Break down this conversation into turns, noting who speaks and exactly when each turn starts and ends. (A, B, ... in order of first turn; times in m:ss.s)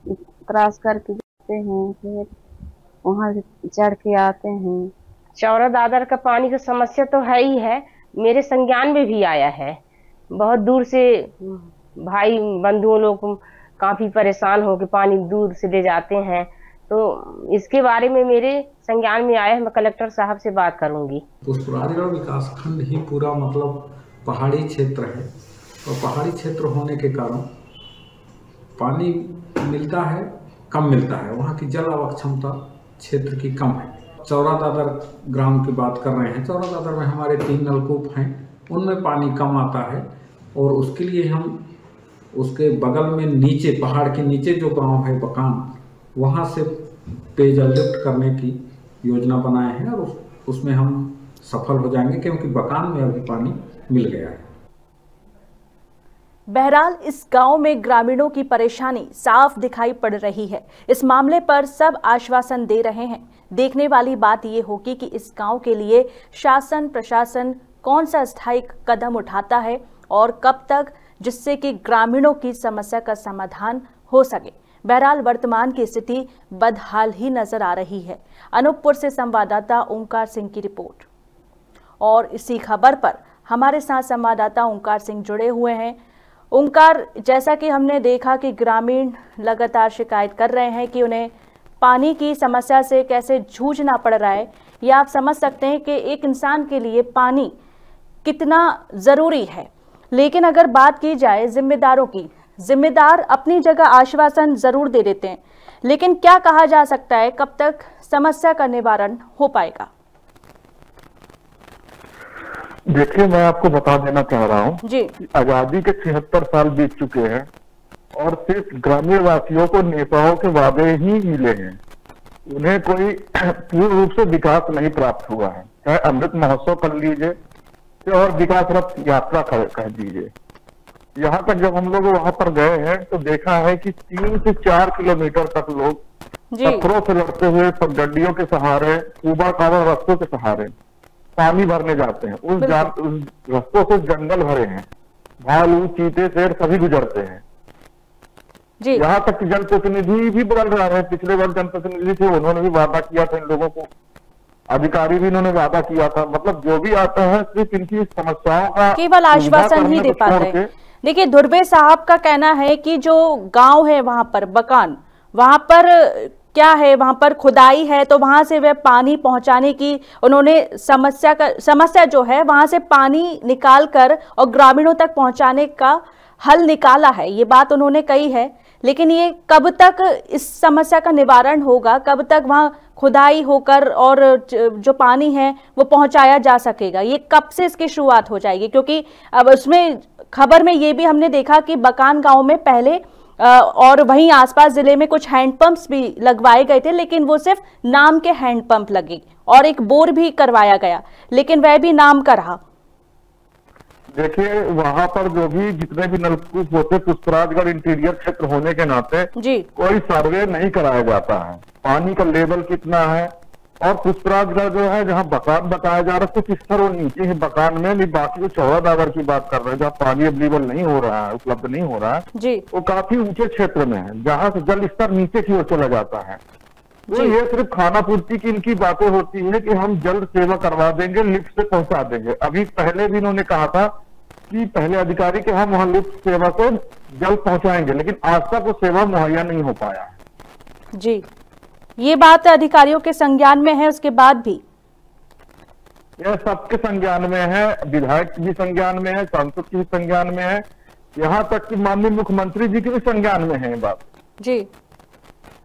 0:00.5-0:02.3 A
0:03.0-0:04.9 A
0:05.4-0:09.8 B
0:10.3-0:21.2 B
0:21.4-0:25.3 C
0:25.8-0:27.5 C
0:28.8-0:40.0 C
0:40.6-0:41.6 C
0:42.3-0:45.6 C
0:46.1-0:54.5 C
0:56.5-1:21.0 D
1:22.0-1:26.0 D
1:26.5-1:31.3 D
1:31.8-1:37.5 D
1:38.2-1:49.9 D
1:52.9-1:54.8 E
1:54.8-1:55.1 D
1:55.3-1:57.5 E
1:58.2-2:01.8 E
2:02.5-2:07.3 E
2:08.0-2:10.3 E
2:11.2-2:16.0 E
2:16.5-2:16.9 D
2:16.6-2:20.7 E
2:21.4-2:24.9 E
2:22.6-2:22.9 D
2:25.4-2:27.4 E
2:28.9-2:33.9 E
2:34.7-2:40.7 E
2:39.0-3:22.6 D
3:24.2-3:33.3 E
3:29.4-3:29.7 D
3:33.8-3:46.4 E
3:42.4-3:42.6 D
3:47.1-3:47.4 D
3:47.1-3:53.9 E
3:54.5-4:00.2 E
4:01.0-4:01.2 D
4:02.0-4:04.6 D
4:06.2-4:10.6 E
4:11.2-4:14.0 E
4:14.4-4:14.7 D